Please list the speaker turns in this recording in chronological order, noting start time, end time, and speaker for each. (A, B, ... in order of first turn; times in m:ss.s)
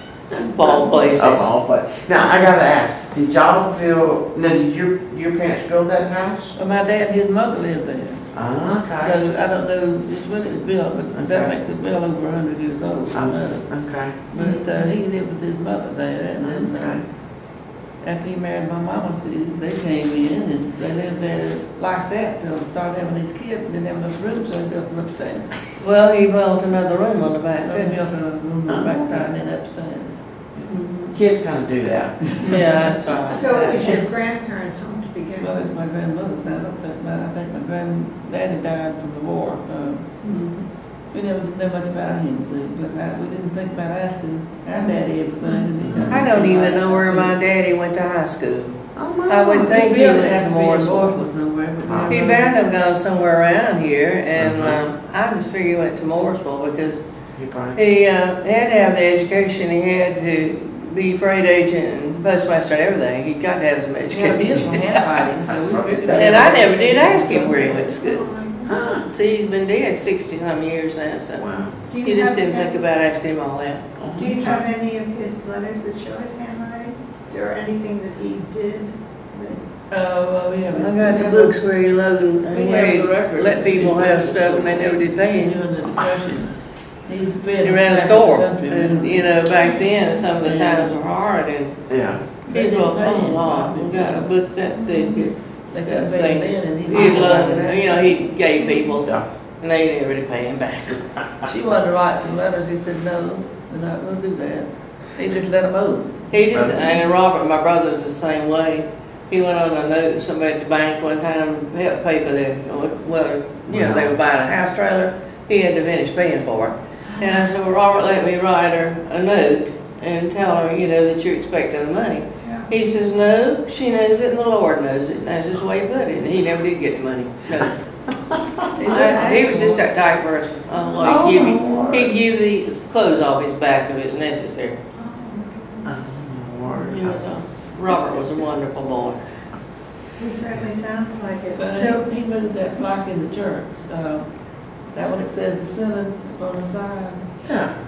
0:00.4-0:01.5 A
0:01.1-0:06.6 B
0:06.6-0:25.6 C
0:08.3-0:09.2 B
0:11.2-0:11.5 B
0:13.1-0:14.2 B
0:14.4-0:14.7 A
0:16.4-0:17.0 B
0:25.8-0:28.0 A
0:27.6-0:30.2 C
0:28.7-0:29.3 B
0:30.6-0:32.8 B
0:30.7-0:31.2 A
0:32.5-0:33.9 A
0:33.3-0:35.5 D
0:35.4-0:40.2 C
0:40.2-0:40.7 A
0:41.1-0:47.4 C
0:44.8-0:45.7 D
0:45.8-0:46.3 B
0:46.1-0:51.2 A
0:49.0-0:49.7 B
0:49.5-0:52.6 C
0:51.8-0:52.2 B
0:52.1-0:57.0 A
0:54.4-0:54.8 B
0:57.4-0:57.8 B
0:57.8-1:05.2 A
1:04.1-1:07.9 C
1:05.5-1:06.4 B
1:06.1-1:08.3 A
1:07.9-1:08.9 D
1:08.6-1:09.1 B
1:09.1-1:11.5 A
1:11.4-1:11.8 B
1:11.8-1:12.8 D
1:12.0-1:13.9 A
1:14.0-1:14.6 B
1:14.2-1:19.6 D
1:19.5-1:21.7 C
1:20.7-1:25.6 A
1:22.5-1:29.4 C
1:27.6-1:41.1 A
1:29.6-1:30.3 D
1:30.4-1:31.0 C
1:31.9-1:32.3 B
1:32.4-1:34.5 C
1:34.7-1:35.4 D
1:35.6-1:38.3 C
1:38.6-1:38.9 D
1:41.4-1:46.3 C
1:46.3-2:07.8 A
1:46.5-1:47.0 B
1:53.7-1:54.1 B
2:02.4-2:02.7 D
2:08.7-2:09.8 C
2:08.9-2:14.8 A
2:11.0-2:12.1 B
2:14.9-2:15.9 D
2:15.8-2:17.4 B
2:16.8-2:19.2 A
2:20.2-2:22.0 D
2:21.6-2:27.3 C
2:27.4-2:27.8 B